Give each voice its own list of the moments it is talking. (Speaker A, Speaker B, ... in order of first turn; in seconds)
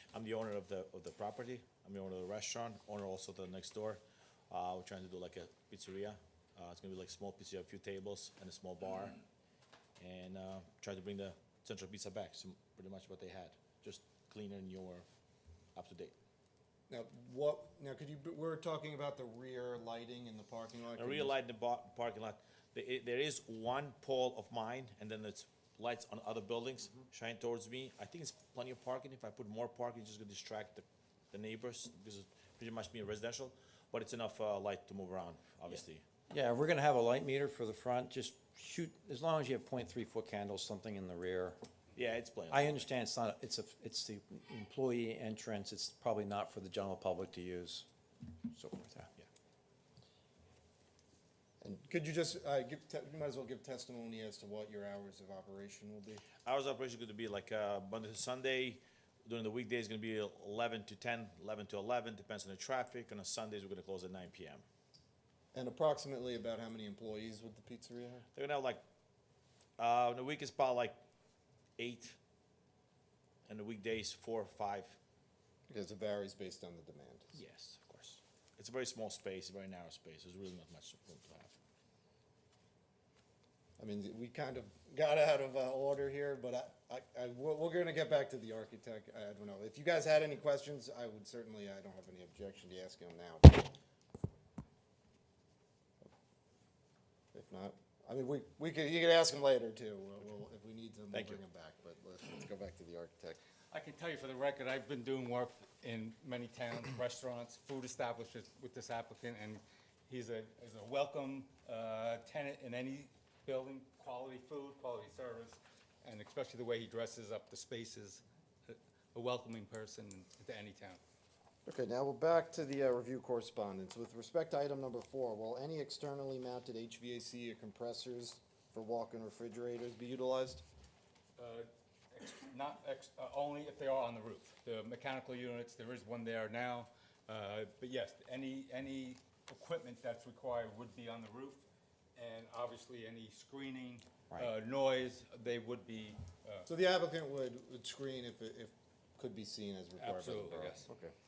Speaker A: 0.1-9.2, 10.0-15.1, 15.8-16.1, 21.0-36.0, 42.0-42.9, 56.4-64.6, 68.3-68.8, 69.8-71.0, 71.8-72.2, 73.5-75.0, 77.3-81.6, 101.1-101.4
Speaker B: 16.9-21.4, 51.6-56.2, 65.5-68.3, 75.7-77.3, 83.8-93.7, 97.3-103.4, 121.7-130.6, 146.7-151.1
Speaker C: 36.3-41.6, 42.5-47.9, 48.5-49.1
Speaker D: 103.7-121.0, 131.4-141.7, 142.2-146.7, 150.0-150.9